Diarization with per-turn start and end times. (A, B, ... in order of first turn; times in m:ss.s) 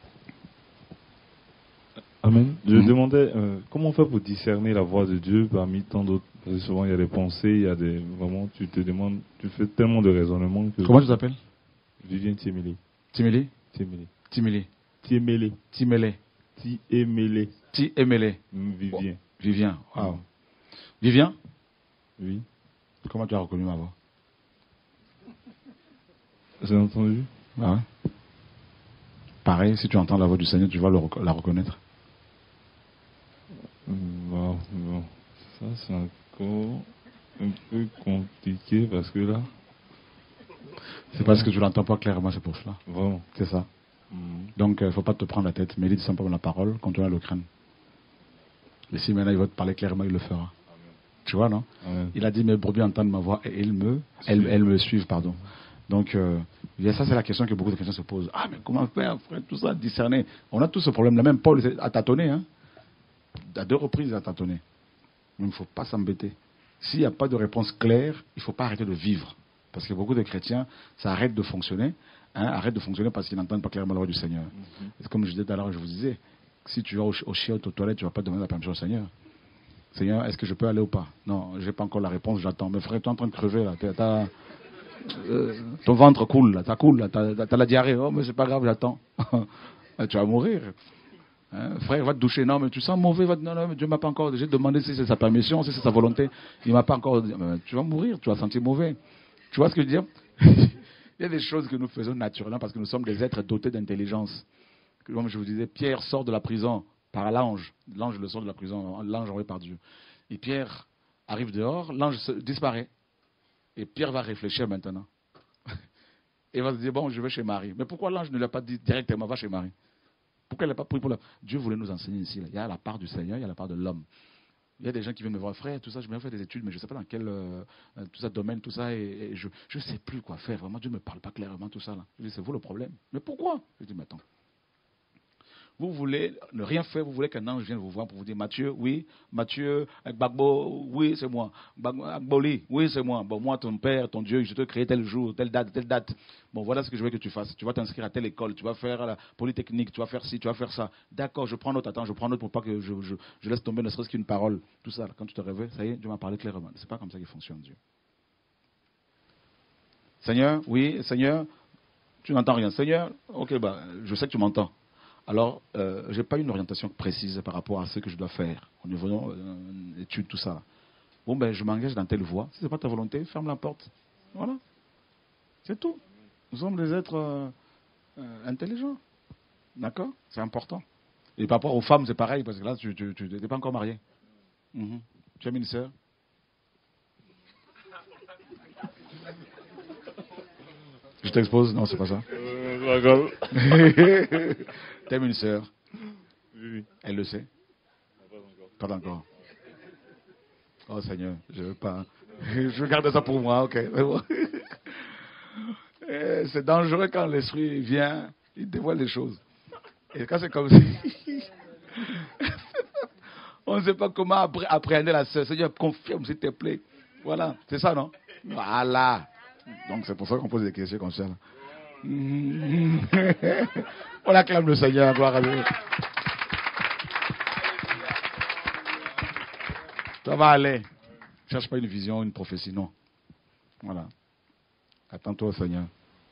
0:02.2-0:11.2 A
0:10.8-0:11.4 B
0:12.0-0:12.8 A
0:13.1-0:13.5 B
0:13.7-0:14.1 A
0:14.3-0:14.7 B
0:15.0-0:15.6 A
0:15.7-0:16.2 B
0:16.6-0:17.5 A
0:17.7-0:18.4 B
0:18.5-0:19.2 A
0:18.9-0:20.2 B
0:21.0-0:21.3 B
0:22.2-0:22.4 A
0:23.0-0:23.9 B
0:26.6-0:27.3 A
0:27.6-0:27.8 B
0:29.4-0:31.8 B
0:33.8-0:39.5 A
0:41.1-0:42.8 B
0:41.2-0:41.5 A
0:42.9-0:43.2 A
0:43.3-0:43.7 B
0:44.1-0:44.5 A
0:44.6-0:47.4 B
0:48.9-0:50.5 B
0:51.2-1:02.4 B
0:51.8-0:52.1 A
0:54.3-0:54.5 A
1:03.4-1:04.6 B
1:05.4-1:19.1 B
1:14.6-1:14.9 A
1:19.9-1:24.3 B
1:25.0-1:30.7 B
1:31.5-1:39.0 B
1:39.5-1:44.4 B
1:45.0-1:52.9 B
1:53.8-1:55.1 B
1:56.5-1:59.7 B
2:00.5-2:04.0 B
2:04.8-2:14.2 B
2:15.8-2:37.8 B
2:40.2-2:41.5 B
2:42.2-2:44.7 B
2:45.3-2:50.6 B
2:51.2-2:54.6 B
2:55.6-2:56.0 B
2:56.5-2:57.5 B
2:58.2-2:59.0 B
2:59.8-3:00.8 B
3:01.4-3:04.0 B
3:04.7-3:05.9 B
3:11.2-3:12.2 B
3:12.4-3:13.6 A
3:13.4-3:15.7 B
3:16.5-3:16.9 A
3:17.0-3:17.5 B
3:18.8-3:19.2 B
3:20.9-3:29.4 B
3:30.1-3:41.4 B
3:42.0-3:45.8 B
3:50.2-3:50.8 B
3:51.5-3:52.9 B
3:53.8-3:54.1 B
3:55.1-3:55.9 B